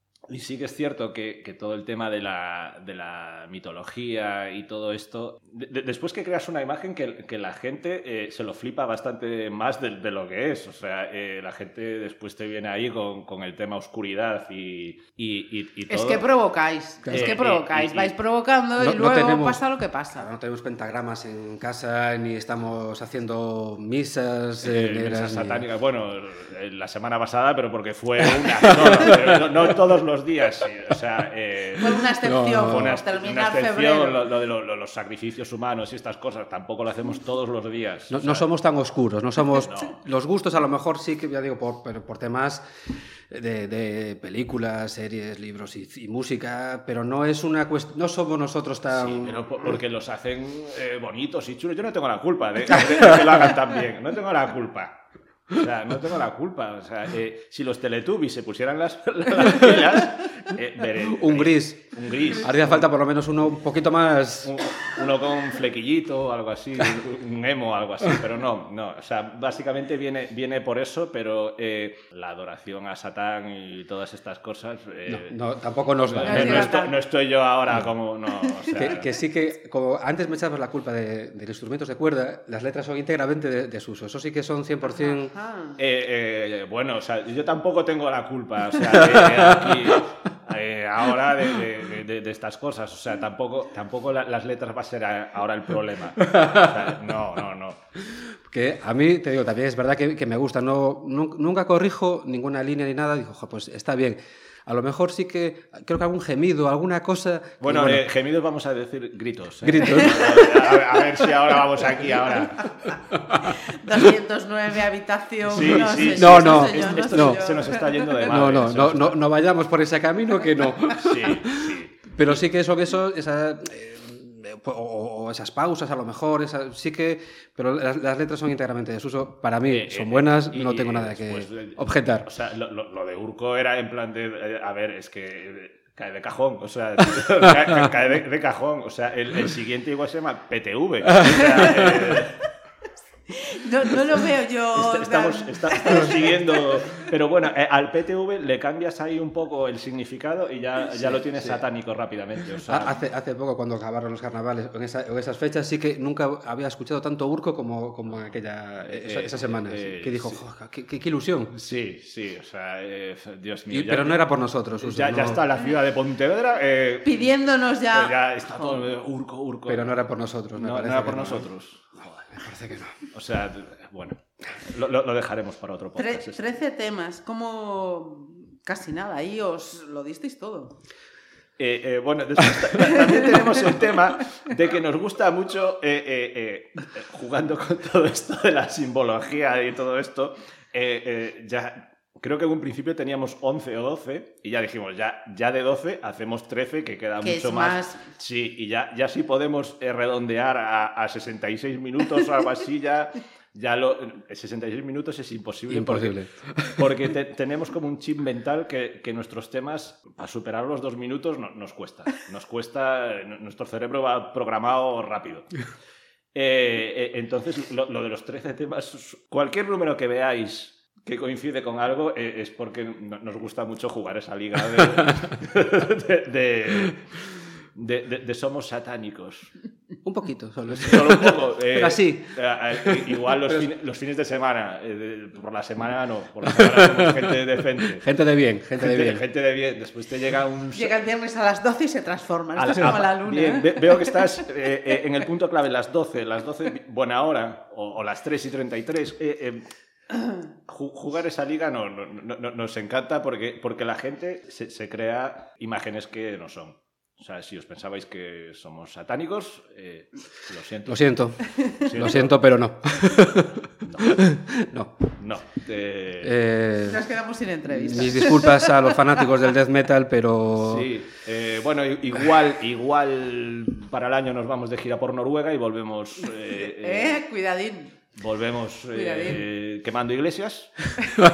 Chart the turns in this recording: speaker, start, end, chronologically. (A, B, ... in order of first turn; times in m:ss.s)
0:00.3-0:16.3 A
0:15.9-0:20.3 B
0:17.0-0:17.4 C
0:17.1-0:18.1 A
0:18.8-0:19.6 C
0:20.1-0:25.7 C
0:24.6-0:38.5 A
0:28.2-0:29.4 C
0:31.8-0:34.2 B
0:32.2-0:33.0 C
0:38.1-0:42.7 C
0:39.5-0:40.0 A
0:43.3-0:49.7 C
0:48.9-1:02.9 A
1:01.0-1:04.6 C
1:04.4-1:15.4 A
1:15.1-1:16.7 C
1:16.0-1:19.1 A
1:16.2-1:17.0 B
1:18.8-1:25.3 C
1:24.8-1:25.8 B
1:25.8-1:37.8 A
1:29.0-1:29.8 C
1:36.3-1:36.8 C
1:38.1-1:48.1 C
1:47.6-1:52.9 A
1:49.6-1:50.4 C
1:50.0-1:50.8 B
1:53.1-1:53.5 C
1:53.4-1:58.2 B
1:55.5-1:59.2 A
1:56.2-1:57.4 C
1:58.2-2:12.3 C
2:00.9-2:02.4 A
2:09.7-2:22.5 A
2:23.3-2:27.0 B
2:24.7-2:33.0 A
2:31.0-2:31.6 C
2:32.7-2:41.5 C
2:38.8-2:40.4 A
2:41.5-2:44.2 A
2:43.7-2:45.4 C
2:44.8-2:50.0 A
2:47.0-2:48.8 B
2:49.7-2:51.5 C
2:50.5-2:52.1 A
2:52.2-2:53.0 C
2:53.1-2:56.4 A
2:56.0-3:00.8 B
3:01.6-3:35.6 A
3:17.2-3:18.0 B
3:25.7-3:26.3 C
3:36.3-3:49.5 A
3:50.0-3:53.7 C
3:50.7-3:58.1 A
3:56.6-3:57.1 C
3:58.0-3:59.2 C
3:58.8-4:01.0 A
4:00.8-4:04.2 B
4:02.6-4:09.7 A
4:10.7-4:22.4 A
4:20.9-4:25.0 C
4:23.8-4:24.2 A
4:25.2-4:26.4 A
4:26.2-4:27.0 C
4:26.9-4:28.7 B
4:27.7-4:30.9 C
4:30.6-4:37.2 A
4:36.3-4:37.9 B
4:38.2-4:41.0 A
4:38.9-4:39.4 B